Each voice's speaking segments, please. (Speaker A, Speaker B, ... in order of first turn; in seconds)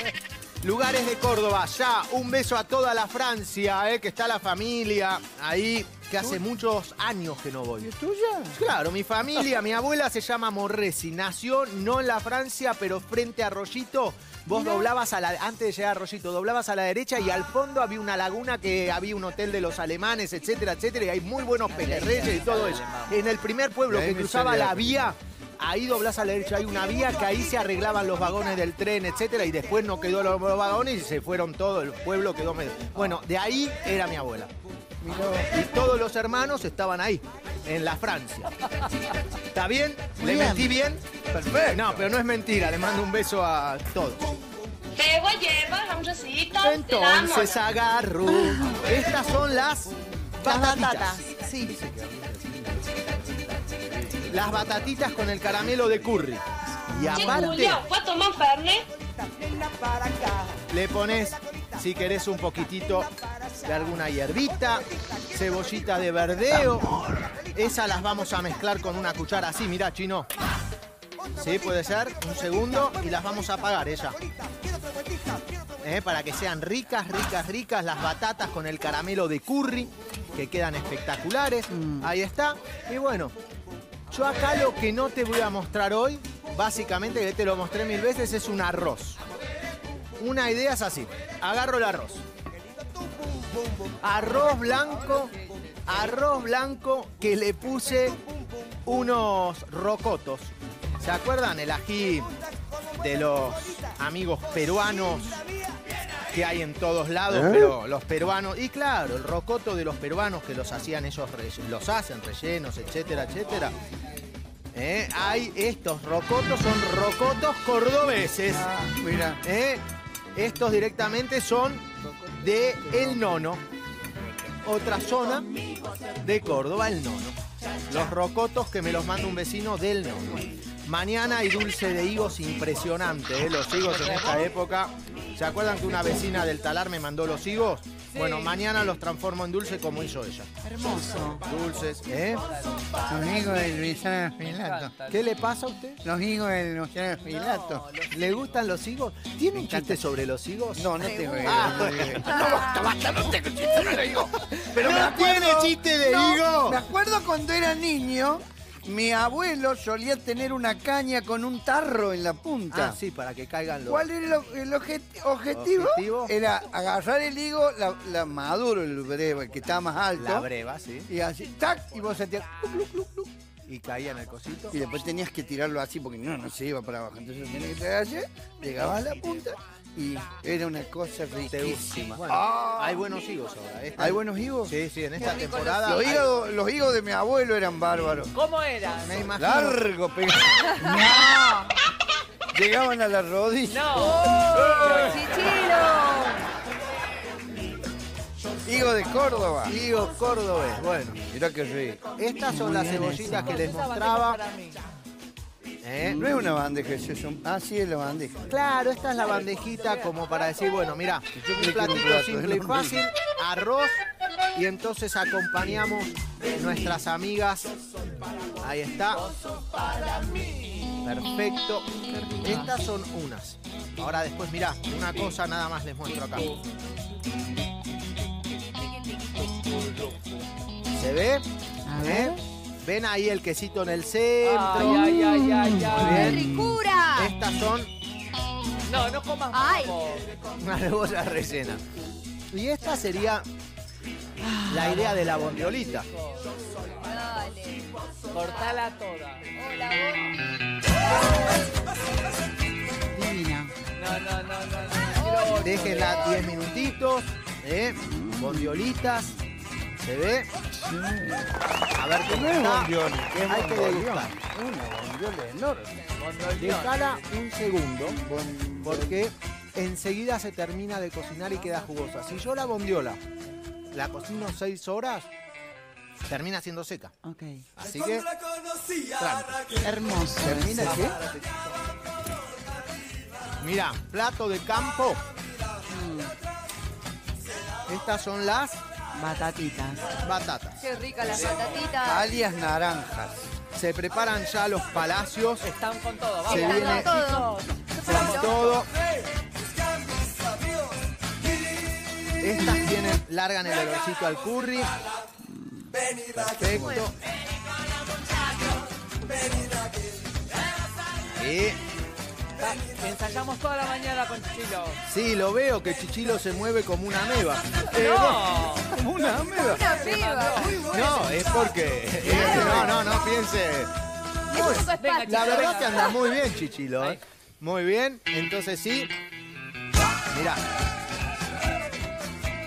Speaker A: 0.6-7.9, 8.5-34.5, 35.5-38.5, 39.5-41.0, 41.7-44.3, 46.6-51.2, 54.3-57.8, 60.7-63.1, 63.6-67.0, 67.5-70.3, 71.3-74.2, 75.8-83.3, 84.1-89.2, 90.2-92.2, 94.0-95.3, 95.9-98.2, 98.9-102.3, 103.0-105.4, 106.3-113.7, 114.7-118.7, 119.4-119.8, 120.4-123.6, 124.7-125.5, 126.2-127.4, 127.9-140.5, 141.4-142.4, 145.1-146.0, 148.1-152.3, 154.8-156.8, 162.7-164.1, 165.5-166.3, 170.2-171.1, 173.7-174.8, 181.5-186.3, 189.1-189.8, 199.7-201.2, 202.2-204.4, 205.8-206.3, 208.5-214.0, 214.6-217.7, 218.6-219.2, 221.0-226.6, 230.9-231.5, 232.0-235.0, 236.0-236.5, 237.1-237.9, 240.6-241.8, 242.5-243.5, 244.7-246.1, 255.6-259.3, 260.0-260.5, 262.0-264.4, 266.6-268.2, 268.8-273.2, 273.9-275.3, 276.3-277.1, 277.8-278.3, 279.2-279.6, 283.6-285.2, 287.9-288.8, 290.2-290.9, 293.7-295.7, 296.5-297.1, 298.0-298.9, 302.4-304.9, 306.4-307.1, 311.3-311.8, 315.1-318.4, 320.9-323.9, 324.5-329.1, 330.3-330.6
Speaker B: 7.8-8.6, 23.9-25.1, 35.0-35.5, 41.3-42.1, 51.6-55.9, 107.3-107.7, 118.5-119.4, 122.0-123.4, 143.1-144.9, 146.0-147.9, 149.5-150.0, 150.7-163.0, 163.9-170.5, 171.1-173.3, 174.7-183.2, 184.0-184.8, 185.8-188.3, 189.4-191.7, 192.5-194.0, 198.7-199.7, 201.3-202.0, 206.2-208.5, 211.3-213.0, 236.2-236.8, 260.7-261.5, 262.2-266.0, 268.2-269.2, 280.4-281.2, 292.0-293.5, 318.9-319.8, 322.2-323.0
Speaker C: 21.7-23.3, 133.8-134.5, 138.1-138.6, 144.4-145.2, 147.3-148.4, 188.3-189.3, 193.7-195.4, 203.2-204.8, 219.6-220.2, 229.3-230.3, 234.4-236.4, 238.9-240.3, 245.1-246.4, 248.3-249.5, 254.0-256.5, 266.1-267.1, 295.6-298.9, 312.6-315.0, 317.9-318.9, 319.9-320.8, 324.9-326.3
Speaker D: 40.2-40.8, 48.3-48.9, 50.4-51.8, 56.9-57.6, 81.7-82.1, 140.6-141.4, 202.5-203.7, 206.0-206.4, 222.1-222.6, 231.8-232.4, 234.8-236.2, 244.4-245.1, 253.1-253.8, 258.0-258.9, 277.2-277.7, 279.8-281.1, 285.9-286.4, 289.1-290.1, 305.5-306.0
Speaker E: 44.9-47.6, 57.1-58.9
Speaker F: 151.1-151.6, 152.2-152.9, 185.2-186.1, 190.8-191.5, 194.0-196.4, 236.0-237.3, 239.5-240.0, 247.0-248.6, 249.6-250.3, 255.2-255.6, 290.8-292.3, 296.4-298.7, 306.7-307.1, 319.6-321.1, 322.3-322.9, 324.5-326.2